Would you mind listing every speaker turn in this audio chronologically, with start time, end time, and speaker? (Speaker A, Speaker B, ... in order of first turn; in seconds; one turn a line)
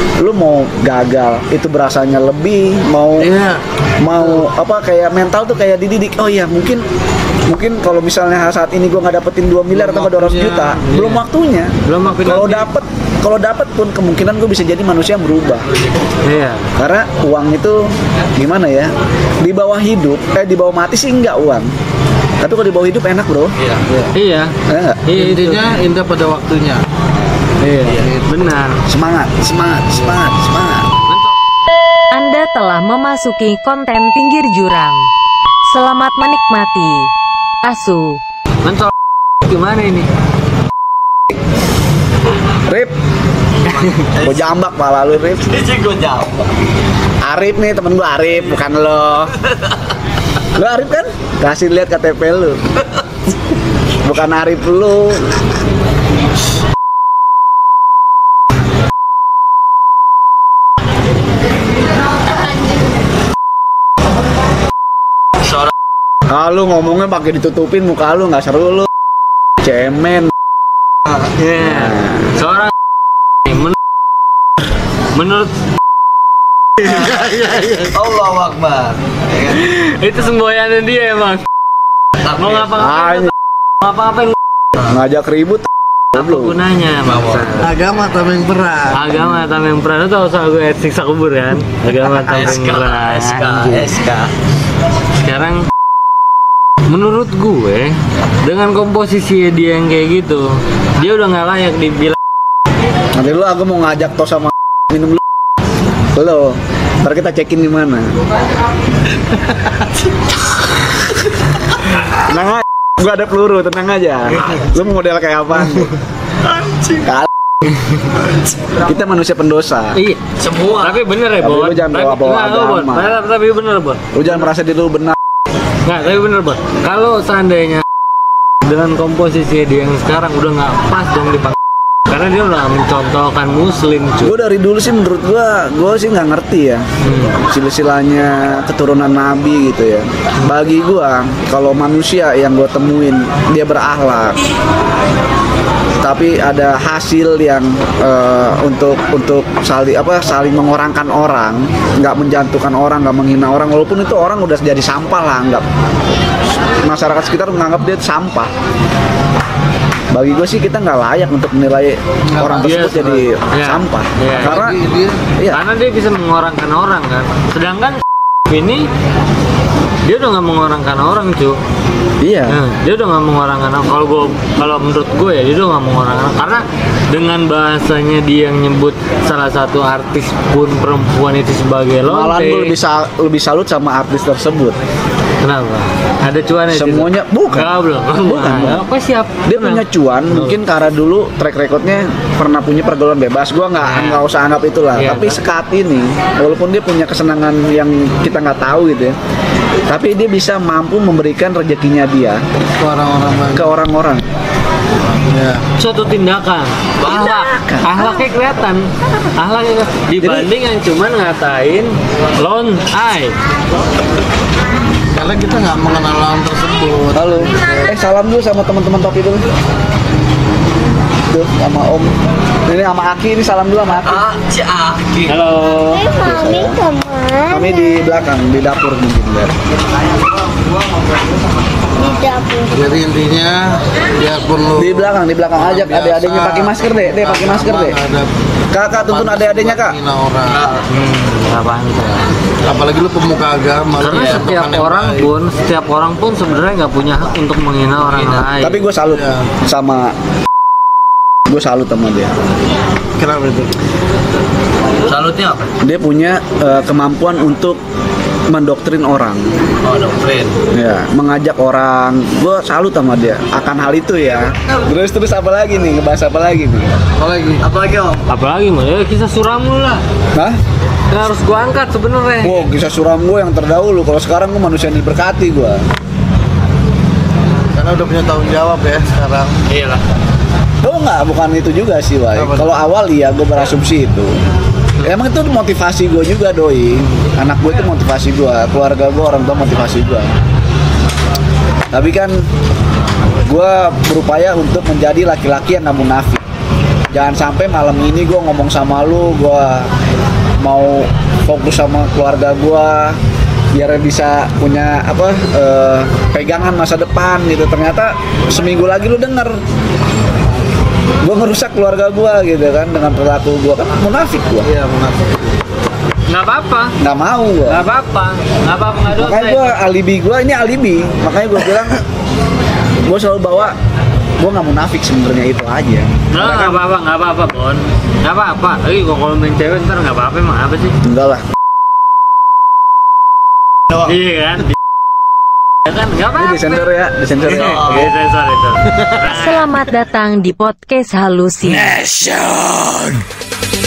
Speaker A: 0.2-3.4
Speaker B: 3.2-3.6
Speaker A: 4.0-6.8
Speaker A: 7.5-15.7
Speaker B: 9.7-10.8
Speaker C: 10.7-11.2
Speaker C: 11.8-12.7
Speaker C: 16.2-16.7
Speaker A: 16.8-21.7
Speaker A: 22.4-23.5
Speaker D: 23.6-23.8
Speaker C: 24.1-24.5
Speaker A: 24.7-25.1
Speaker C: 25.1-25.7
Speaker B: 25.1-26.8
Speaker C: 27.6-28.8
Speaker B: 28.0-28.2
Speaker A: 28.9-30.9
Speaker C: 31.1-31.3
Speaker E: 32.1-35.0
Speaker E: 35.7-37.1
Speaker E: 37.6-38.2
Speaker C: 38.6-38.9
Speaker C: 39.4-40.1
Speaker A: 42.6-42.9
Speaker D: 43.6-44.5
Speaker A: 44.2-45.6
Speaker D: 45.4-46.4
Speaker A: 47.2-49.3
Speaker A: 50.5-52.7
Speaker A: 54.0-55.4
Speaker A: 66.3-68.9
Speaker A: 69.6-70.3
Speaker C: 71.4-72.7
Speaker A: 71.6-72.3
Speaker C: 73.4-73.8
Speaker C: 75.1-75.5
Speaker D: 77.8-79.6
Speaker C: 79.5-81.4
Speaker D: 82.2-82.6
Speaker C: 82.3-84.3
Speaker A: 82.7-83.3
Speaker A: 84.8-86.5
Speaker C: 86.1-87.7
Speaker D: 87.0-87.5
Speaker B: 87.5-89.2
Speaker C: 88.9-93.9
Speaker D: 92.2-94.3
Speaker C: 95.2-95.7
Speaker C: 96.9-102.2
Speaker A: 103.1-105.2
Speaker A: 106.1-108.2
Speaker A: 112.2-116.0
Speaker D: 116.5-117.0
Speaker A: 117.0-117.3
Speaker A: 118.8-120.0
Speaker C: 119.9-124.1
Speaker D: 120.4-121.0
Speaker A: 121.4-123.2
Speaker A: 124.1-125.2
Speaker C: 125.8-127.8
Speaker C: 128.6-131.6
Speaker C: 132.1-134.4
Speaker A: 134.2-136.8
Speaker C: 137.0-137.4
Speaker A: 137.4-144.4
Speaker A: 146.0-155.7
Speaker A: 156.7-158.5
Speaker A: 160.1-164.8
Speaker B: 162.3-162.8
Speaker C: 162.5-164.7
Speaker B: 164.3-165.2
Speaker C: 165.5-168.9
Speaker C: 170.0-171.6
Speaker A: 172.2-172.6
Speaker C: 172.5-182.8
Speaker A: 182.0-184.8
Speaker C: 185.4-190.6
Speaker A: 186.7-188.8
Speaker A: 189.4-199.2
Speaker C: 193.8-194.2
Speaker C: 194.9-195.4
Speaker A: 199.9-202.4
Speaker B: 202.8-203.7
Speaker A: 203.5-204.2
Speaker B: 205.3-205.6
Speaker C: 205.8-213.3
Speaker A: 207.0-208.1
Speaker A: 210.2-210.5
Speaker B: 215.1-217.9
Speaker A: 217.1-219.4
Speaker A: 221.3-222.1
Speaker A: 222.7-224.3
Speaker D: 224.0-225.4
Speaker C: 225.3-226.0
Speaker F: 225.9-228.1
Speaker A: 226.2-226.8
Speaker A: 227.5-229.5
Speaker F: 231.9-232.8
Speaker B: 232.7-238.3
Speaker A: 234.8-238.0
Speaker A: 238.7-240.0
Speaker B: 238.9-240.8
Speaker D: 240.5-240.8
Speaker C: 240.9-242.3
Speaker B: 242.6-245.3
Speaker C: 244.0-248.9
Speaker D: 248.1-248.4
Speaker A: 248.6-250.1
Speaker B: 249.0-249.4
Speaker A: 251.5-252.3
Speaker B: 253.2-253.7
Speaker D: 255.1-255.7
Speaker A: 255.8-257.8
Speaker A: 258.5-259.5
Speaker D: 259.8-260.5
Speaker A: 260.7-267.0
Speaker B: 267.2-267.6
Speaker D: 267.6-268.2
Speaker C: 268.3-270.0
Speaker A: 270.3-270.6
Speaker C: 271.1-272.6
Speaker A: 272.4-275.8
Speaker B: 277.7-279.5
Speaker A: 280.8-284.3
Speaker B: 282.4-282.7
Speaker A: 285.0-290.3
Speaker A: 291.9-292.5
Speaker A: 293.4-296.4
Speaker A: 297.1-299.9
Speaker A: 300.6-303.2
Speaker A: 303.7-309.6
Speaker A: 311.2-314.7
Speaker B: 314.6-315.5
Speaker C: 316.3-316.9
Speaker A: 317.0-317.8
Speaker C: 317.6-319.7
Speaker A: 319.1-322.0
Speaker A: 323.0-323.8
Speaker A: 324.4-326.8
Speaker C: 326.3-331.0
Speaker A: 331.0-331.4
Speaker C: 334.0-334.7
Speaker C: 335.8-339.7
Speaker A: 336.4-338.1
Speaker E: 339.3-342.0